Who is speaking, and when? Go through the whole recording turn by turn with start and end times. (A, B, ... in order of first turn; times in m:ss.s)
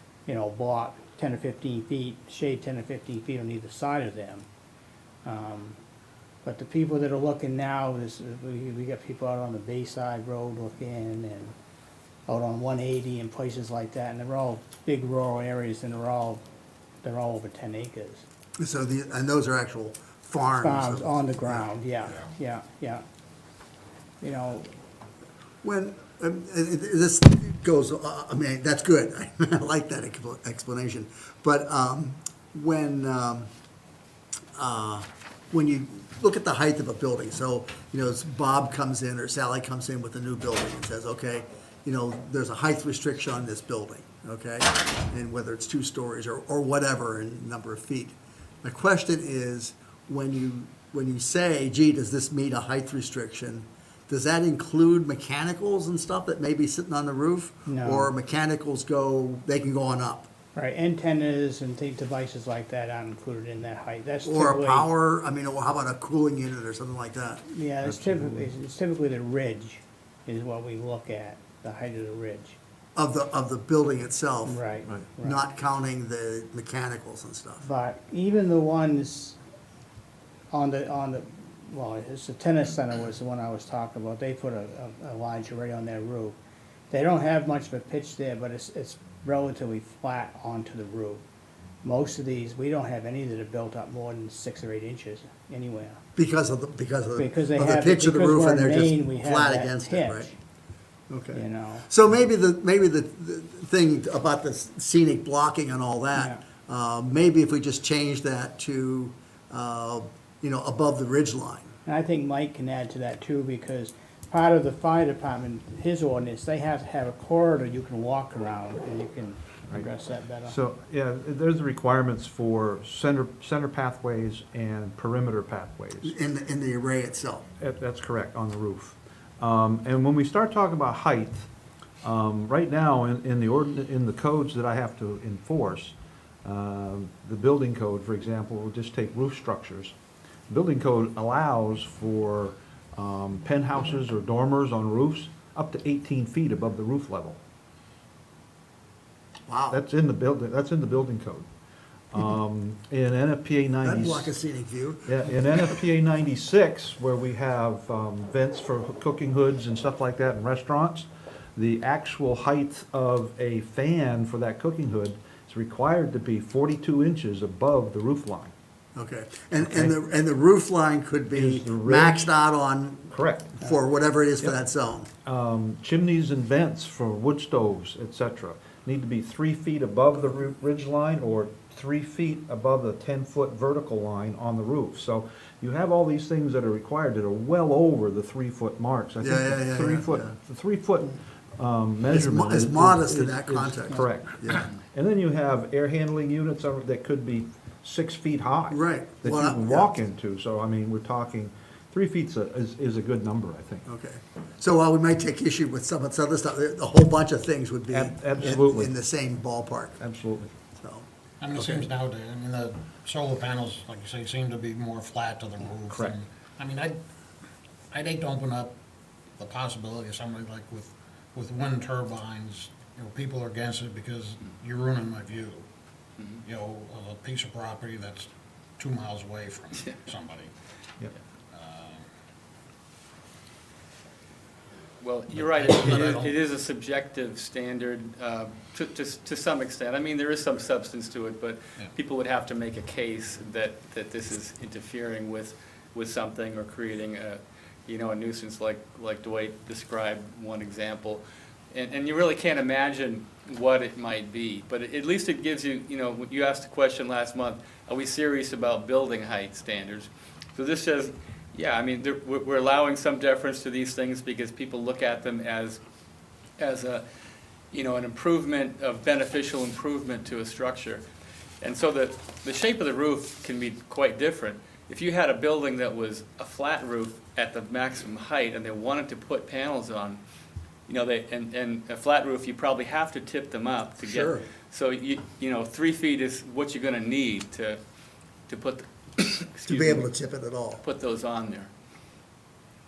0:00.3-0:04.5 A
0:05.2-0:05.8 A
0:06.4-0:11.6 A
0:12.3-0:16.4 A
0:17.0-0:18.3 A
0:18.6-0:21.6 B
0:20.6-0:23.0 A
0:24.2-0:24.7 A
0:25.6-0:33.5 B
0:34.6-1:00.3 B
0:57.7-0:58.1 A
1:00.6-1:04.9 A
1:04.2-1:07.4 B
1:07.5-1:12.6 A
1:07.8-1:08.5 C
1:13.0-1:14.6 B
1:14.5-1:15.4 A
1:15.2-1:17.6 B
1:17.6-1:19.4 A
1:20.5-1:26.4 A
1:26.9-1:31.2 A
1:31.8-1:36.0 A
1:36.2-1:40.3 B
1:37.2-1:40.4 A
1:41.1-1:51.7 B
1:41.3-1:41.9 A
1:46.2-1:46.4 A
1:51.9-2:00.6 A
2:00.4-2:06.2 C
2:06.0-2:07.5 B
2:07.6-2:11.4 C
2:12.0-2:19.9 C
2:20.5-2:27.4 C
2:29.5-2:29.8 B
2:29.7-2:31.5 C
2:32.1-2:34.3 C
2:33.8-2:35.1 B
2:35.0-2:48.5 C
2:49.0-2:55.1 B
2:49.6-2:50.0 C
2:51.4-2:52.3 C
2:53.1-2:53.6 C
2:55.2-3:23.9 C
3:09.2-3:10.3 B
3:12.1-3:14.7 B
3:18.7-3:19.9 B
3:23.9-3:30.0 B
3:27.9-3:28.9 C
3:30.0-3:30.5 C
3:30.8-3:31.1 B
3:31.4-3:37.0 D
3:35.9-3:36.2 C
3:37.9-3:38.8 D
3:39.4-3:45.7 D
3:46.4-3:50.5 D
3:51.5-3:52.1 D
3:55.0-4:25.8 E
3:55.3-3:56.3 D
4:26.6-4:27.0 E
4:27.7-4:31.0 E
4:31.6-4:40.2 E
4:40.9-4:47.8 E
4:44.0-4:44.5 B
4:48.5-4:50.1 E
4:49.6-4:50.8 B
4:50.8-4:51.7 E